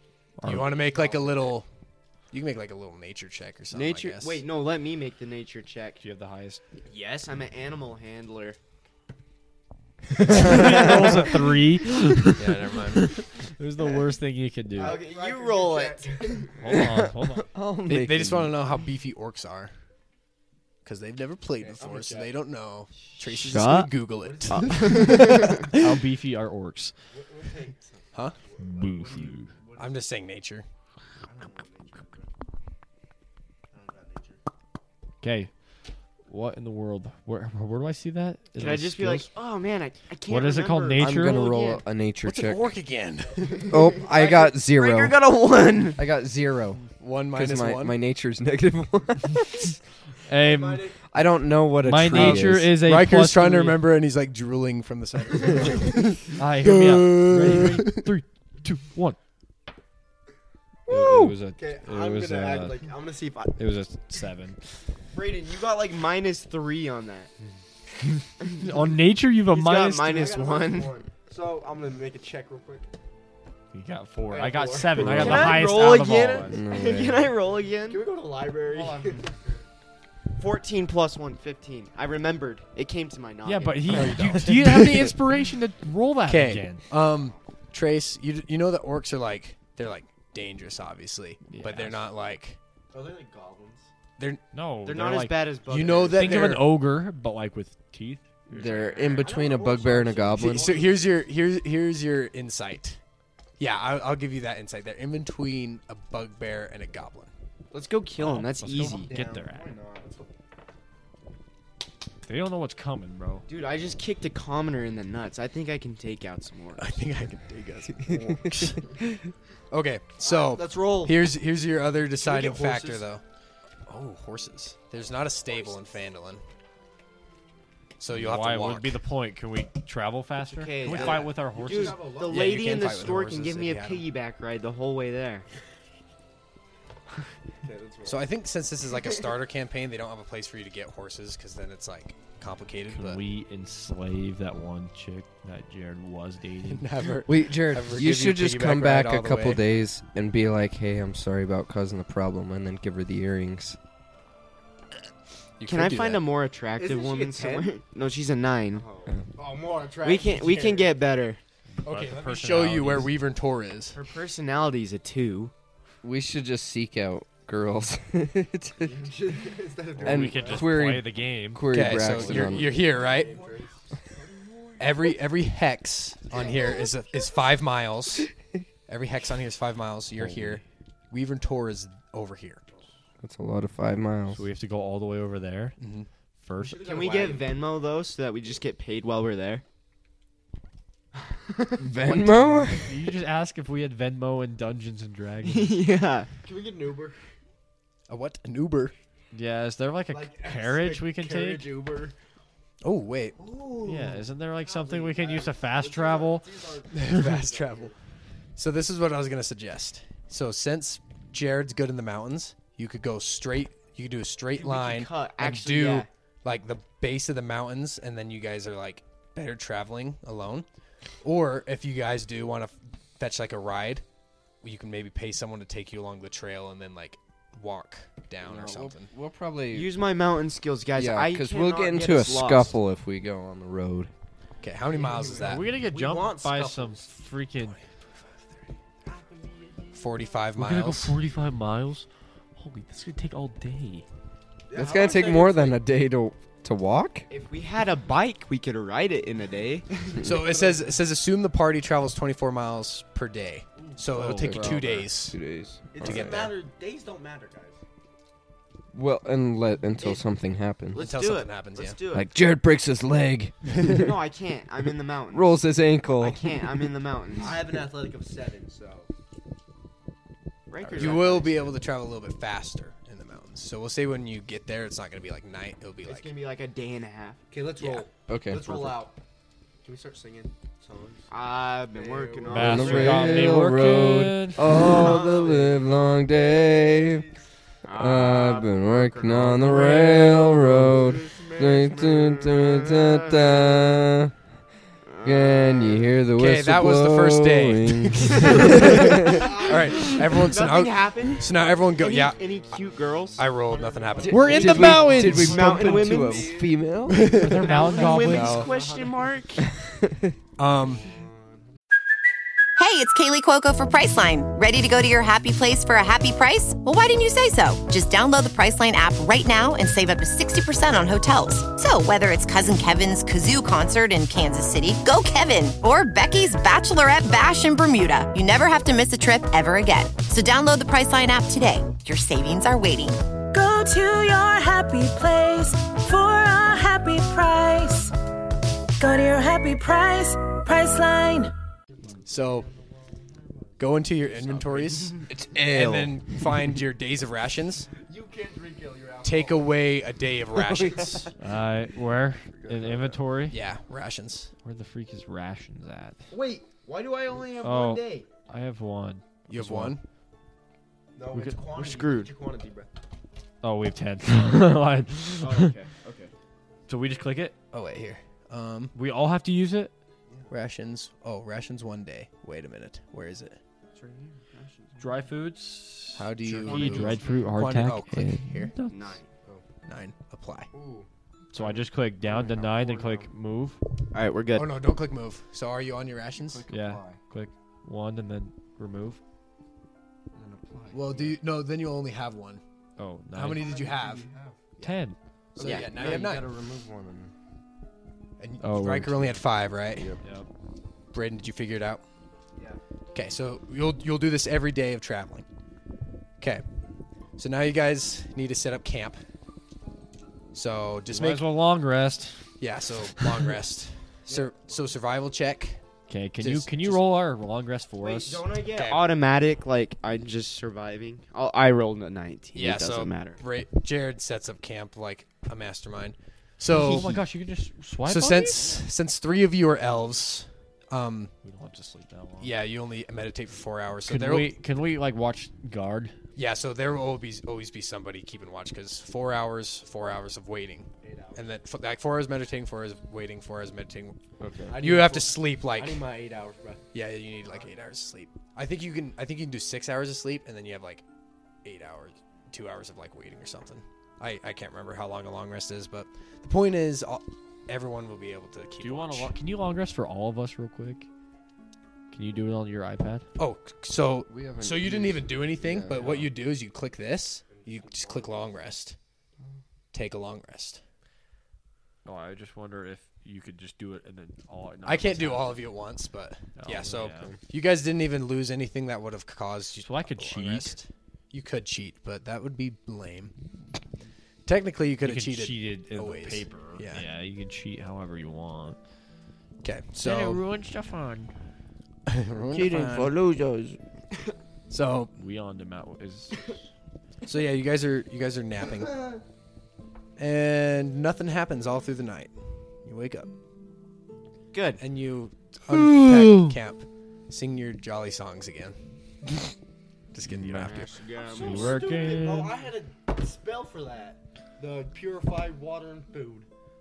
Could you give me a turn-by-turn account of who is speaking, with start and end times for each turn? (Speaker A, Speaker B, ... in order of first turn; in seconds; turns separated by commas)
Speaker A: 0.4-0.7, Speaker B: 0.4-1.7, Speaker C: 0.7-1.6, Speaker B: 2.3-4.4, Speaker D: 3.7-6.0, Speaker A: 6.0-6.6, Speaker D: 6.9-8.6, Speaker A: 10.2-12.5, Speaker E: 10.3-11.2, Speaker B: 12.3-13.1, Speaker A: 13.1-15.0, Speaker C: 14.7-16.8, Speaker D: 14.7-16.5, Speaker A: 16.6-17.5, Speaker E: 16.8-18.6, Speaker B: 17.9-19.7, Speaker B: 20.8-25.8, Speaker C: 21.6-22.3, Speaker E: 23.5-23.9, Speaker D: 23.5-23.9, Speaker C: 24.1-25.2, Speaker D: 24.5-25.6, Speaker A: 25.7-26.9, Speaker C: 27.1-30.0, Speaker A: 28.6-29.5, Speaker B: 29.8-30.6, Speaker C: 31.2-32.3, Speaker C: 33.7-34.4, Speaker A: 35.2-35.5, Speaker A: 36.2-39.3, Speaker D: 38.6-41.8, Speaker A: 40.3-41.4, Speaker E: 40.9-42.7, Speaker B: 42.2-43.7, Speaker C: 43.4-44.0, Speaker E: 43.7-45.2, Speaker D: 44.0-46.0, Speaker E: 46.0-49.7, Speaker B: 47.0-48.0, Speaker A: 50.3-50.8, Speaker C: 50.3-51.0, Speaker E: 51.1-52.8, Speaker A: 51.8-53.8, Speaker B: 52.1-58.1, Speaker A: 56.4-59.2, Speaker A: 60.9-62.9, Speaker C: 61.5-63.6, Speaker A: 63.5-64.6, Speaker D: 65.1-67.3, Speaker A: 68.0-70.4, Speaker D: 69.5-70.9, Speaker C: 70.1-72.9, Speaker A: 73.7-76.6, Speaker C: 74.3-76.2, Speaker E: 75.0-75.6, Speaker D: 75.0-78.0, Speaker E: 76.5-77.3, Speaker C: 77.9-79.4, Speaker D: 78.7-79.3, Speaker D: 80.4-84.3, Speaker A: 83.4-86.8, Speaker B: 83.9-85.2, Speaker B: 86.3-92.6, Speaker A: 91.5-92.0, Speaker C: 92.9-93.9, Speaker A: 94.5-95.4, Speaker D: 94.8-96.5, Speaker B: 95.7-96.8, Speaker A: 96.1-99.3, Speaker E: 98.5-100.7, Speaker C: 99.1-101.1, Speaker B: 100.4-103.0, Speaker B: 103.6-107.3, Speaker D: 107.7-109.1, Speaker A: 108.2-109.7, Speaker C: 108.7-110.3, Speaker A: 112.2-113.5, Speaker D: 113.5-117.0, Speaker B: 116.8-118.9, Speaker E: 118.0-118.4, Speaker B: 119.7-123.2, Speaker C: 120.2-121.2, Speaker C: 122.2-123.1, Speaker B: 123.9-126.4, Speaker B: 128.0-129.0, Speaker A: 128.1-132.1, Speaker D: 130.4-135.4, Speaker C: 130.8-133.2, Speaker B: 132.3-134.0, Speaker C: 137.6-138.3, Speaker B: 138.1-143.2, Speaker A: 142.9-147.1, Speaker B: 146.7-149.6, Speaker E: 147.2-153.8, Speaker B: 155.6-156.2, Speaker D: 155.6-158.8, Speaker C: 156.8-157.7, Speaker C: 158.7-160.9, Speaker D: 160.0-161.4, Speaker A: 161.8-163.2, Speaker C: 161.8-162.7, Speaker B: 161.9-164.0, Speaker D: 163.9-165.5, Speaker E: 166.0-169.0, Speaker C: 168.8-170.7, Speaker A: 170.0-172.4, Speaker E: 170.0-172.8, Speaker B: 171.7-173.3, Speaker C: 172.2-174.7, Speaker D: 173.2-173.6, Speaker B: 174.8-178.3, Speaker C: 176.3-176.7, Speaker B: 178.9-182.6, Speaker E: 180.2-180.6, Speaker E: 183.2-184.4, Speaker A: 184.3-185.8, Speaker B: 185.8-186.1, Speaker A: 186.4-186.9, Speaker C: 186.6-187.7, Speaker D: 186.8-189.6, Speaker E: 191.8-192.9, Speaker A: 192.8-195.8, Speaker D: 195.4-196.3, Speaker C: 196.4-197.3, Speaker B: 198.1-198.9, Speaker A: 199.3-201.7, Speaker C: 200.1-202.1, Speaker B: 202.8-203.4, Speaker C: 203.3-207.9, Speaker A: 203.8-206.5, Speaker B: 206.9-207.9, Speaker B: 208.6-220.7, Speaker D: 214.5-216.1, Speaker B: 221.2-224.0, Speaker B: 224.6-229.1, Speaker E: 228.4-229.9, Speaker D: 229.7-232.7, Speaker E: 230.9-234.1, Speaker B: 234.6-235.8, Speaker C: 234.8-237.1, Speaker A: 235.4-237.8, Speaker C: 239.0-240.1, Speaker B: 239.9-241.2, Speaker A: 240.6-244.1, Speaker C: 244.7-245.8, Speaker E: 244.7-247.2, Speaker D: 247.3-250.2, Speaker B: 250.2-255.4, Speaker C: 250.2-251.0, Speaker C: 253.8-254.0, Speaker A: 254.1-255.1, Speaker E: 254.4-256.5, Speaker C: 255.9-257.8, Speaker B: 256.0-256.5, Speaker E: 258.9-261.1, Speaker D: 260.9-262.3, Speaker B: 260.9-262.0, Speaker E: 262.1-264.1, Speaker D: 263.8-267.6, Speaker E: 265.3-266.7, Speaker C: 267.4-269.1, Speaker D: 270.7-271.7, Speaker B: 270.9-276.3, Speaker D: 276.0-277.4, Speaker C: 277.5-279.2, Speaker E: 278.2-279.1, Speaker C: 279.8-281.3, Speaker D: 281.3-283.7, Speaker C: 281.9-283.3, Speaker A: 282.5-284.9, Speaker E: 282.5-287.3, Speaker C: 284.7-287.4, Speaker D: 284.8-285.4, Speaker D: 287.8-290.5, Speaker E: 287.9-294.3, Speaker C: 289.6-292.4, Speaker D: 291.3-293.7, Speaker D: 295.1-296.1, Speaker E: 295.2-299.4, Speaker B: 296.3-302.5, Speaker C: 299.2-309.6, Speaker D: 299.4-301.4, Speaker D: 302.0-303.5, Speaker B: 303.4-305.1, Speaker E: 304.2-307.3, Speaker A: 304.3-305.6, Speaker D: 305.1-306.6, Speaker B: 307.1-307.7, Speaker A: 307.3-308.7, Speaker D: 307.5-309.6, Speaker B: 308.3-308.7, Speaker B: 310.6-311.0, Speaker C: 311.0-311.5, Speaker F: 312.8-333.2, Speaker G: 333.5-338.1, Speaker G: 339.0-341.5, Speaker C: 342.0-344.9, Speaker B: 342.2-342.7, Speaker B: 343.8-347.9, Speaker E: 345.3-346.2, Speaker C: 347.9-349.8, Speaker B: 349.2-351.2, Speaker E: 350.8-351.1, Speaker C: 350.9-351.3, Speaker A: 351.4-353.6, Speaker C: 352.7-353.0, Speaker B: 353.5-354.5, Speaker A: 354.6-356.2, Speaker C: 356.3-358.2, Speaker D: 357.3-358.2, Speaker A: 357.6-360.0, Speaker B: 359.5-360.0, Speaker C: 361.1-362.9, Speaker A: 361.3-361.6, Speaker D: 361.7-362.3, Speaker A: 363.6-365.7, Speaker C: 365.4-366.3, Speaker A: 366.9-367.6, Speaker B: 367.7-368.9, Speaker A: 368.9-369.9, Speaker B: 370.5-373.6, Speaker C: 373.9-374.4, Speaker D: 374.0-375.0, Speaker A: 375.0-379.2, Speaker B: 376.1-378.7, Speaker C: 376.6-377.5, Speaker D: 377.1-377.4, Speaker D: 378.9-379.3, Speaker B: 379.9-380.7, Speaker C: 380.7-381.1, Speaker A: 381.5-383.8, Speaker C: 382.6-383.2, Speaker D: 384.1-384.7, Speaker B: 384.5-386.6, Speaker E: 386.4-387.2, Speaker A: 386.7-389.2, Speaker C: 390.3-391.3, Speaker B: 390.9-392.6, Speaker A: 393.0-393.7, Speaker B: 393.3-394.3, Speaker C: 393.5-394.7, Speaker A: 394.8-395.2, Speaker B: 395.6-396.5, Speaker D: 395.6-395.9, Speaker E: 395.7-397.3, Speaker B: 398.4-400.1, Speaker A: 398.6-399.4, Speaker E: 399.9-400.2, Speaker A: 400.2-400.5, Speaker B: 401.1-402.0, Speaker B: 403.1-405.4, Speaker B: 406.4-406.6, Speaker B: 407.4-409.2, Speaker B: 410.5-411.5, Speaker A: 411.1-412.5, Speaker B: 412.6-415.8, Speaker A: 416.1-418.4, Speaker B: 416.4-417.1, Speaker D: 418.0-423.4, Speaker B: 418.7-419.1, Speaker B: 422.5-427.2, Speaker A: 426.6-428.8, Speaker B: 428.0-431.3, Speaker A: 431.4-432.5, Speaker B: 432.4-434.6, Speaker A: 434.1-436.2, Speaker B: 436.4-444.2, Speaker C: 441.0-441.5, Speaker E: 444.4-444.7, Speaker C: 444.7-446.9, Speaker B: 444.8-446.1, Speaker B: 446.9-451.0, Speaker C: 447.4-447.7, Speaker B: 451.6-459.3, Speaker A: 458.8-461.1, Speaker A: 462.1-463.2, Speaker B: 463.4-468.9, Speaker E: 464.3-466.2, Speaker A: 466.0-466.3, Speaker C: 467.5-468.5, Speaker B: 469.9-470.8, Speaker A: 472.0-475.7, Speaker B: 474.9-483.3, Speaker A: 476.6-477.3, Speaker A: 479.8-480.8, Speaker B: 484.4-487.1, Speaker A: 485.0-488.8, Speaker B: 489.6-490.4, Speaker A: 490.0-491.3, Speaker B: 492.1-493.2, Speaker E: 492.5-493.8, Speaker B: 494.7-495.1, Speaker A: 495.2-496.5, Speaker B: 497.2-499.0, Speaker B: 500.2-502.3, Speaker B: 502.8-503.3, Speaker D: 504.5-504.8, Speaker B: 504.8-508.8, Speaker A: 505.7-506.5, Speaker B: 510.1-510.9, Speaker A: 510.2-512.6, Speaker D: 510.5-511.9, Speaker C: 511.1-516.5